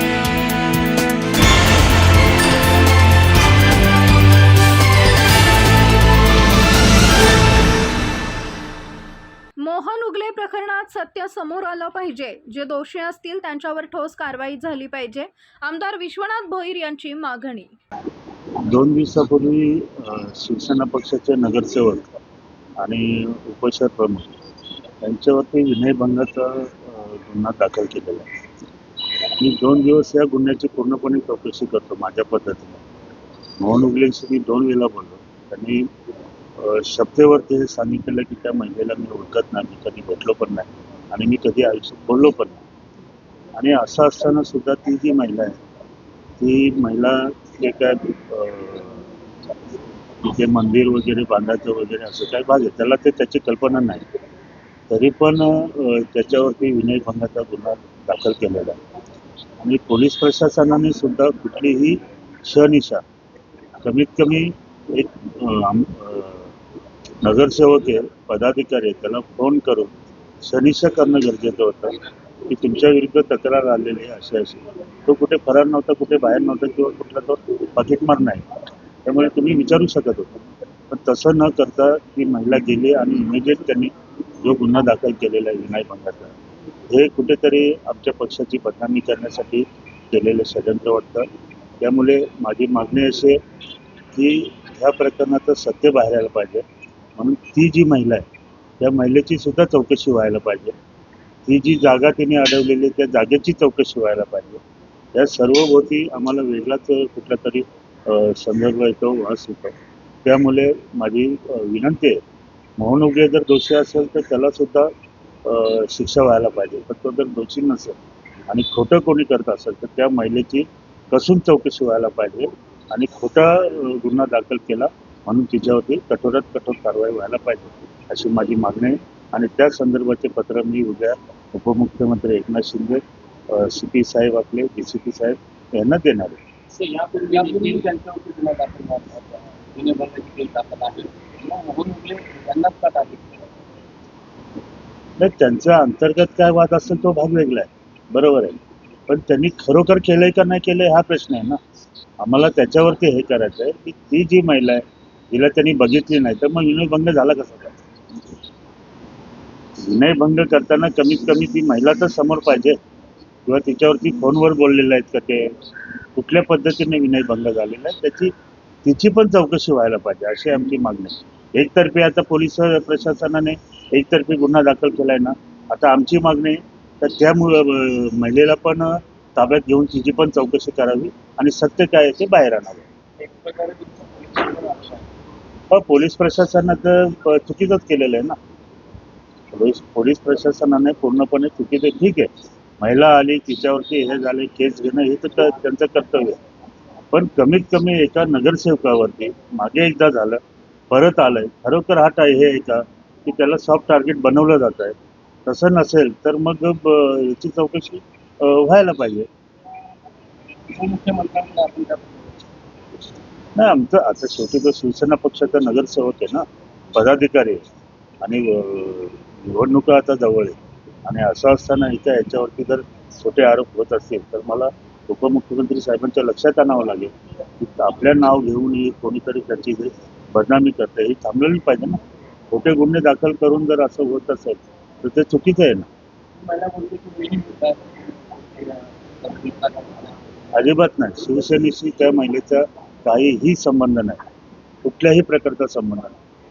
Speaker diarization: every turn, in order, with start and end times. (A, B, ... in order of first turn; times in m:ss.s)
0:09.6-0:17.7 A
0:18.7-0:22.0 B
0:22.8-0:24.3 B
0:25.0-0:28.2 B
0:29.4-0:32.8 B
0:33.6-0:35.8 B
0:36.6-0:42.6 B
0:43.6-0:45.5 B
0:46.4-0:49.1 B
0:50.2-0:54.0 B
0:54.9-0:58.8 B
0:59.6-1:03.0 B
1:03.8-1:06.5 B
1:07.2-1:09.9 B
1:10.4-1:18.4 B
1:19.0-1:20.3 B
1:20.9-1:26.4 B
1:26.9-1:31.2 B
1:31.8-1:33.4 B
1:34.1-1:36.6 B
1:37.2-1:38.2 B
1:38.8-1:40.7 B
1:41.4-1:44.6 B
1:45.1-1:49.7 B
1:50.2-1:52.2 B
1:52.8-1:54.9 B
1:55.4-1:58.0 B
1:58.5-2:13.0 B
2:13.5-2:16.4 B
2:16.8-2:23.4 C
2:25.2-2:28.6 B
2:29.1-2:31.6 B
2:32.2-2:34.8 B
2:35.3-2:37.7 B
2:39.9-2:42.7 B
2:43.4-2:45.5 B
2:46.1-2:48.3 B
2:48.8-3:02.8 B
3:03.2-3:05.0 C
3:05.7-3:08.4 B
3:09.5-3:12.3 B
3:12.8-3:16.4 B
3:17.1-3:24.9 B
3:25.4-3:29.3 B
3:30.7-3:32.3 C
3:33.6-3:37.6 B
3:38.2-3:52.0 B
3:52.5-3:55.9 B
3:56.4-4:00.1 C
4:00.5-4:04.2 B
4:04.8-4:06.1 B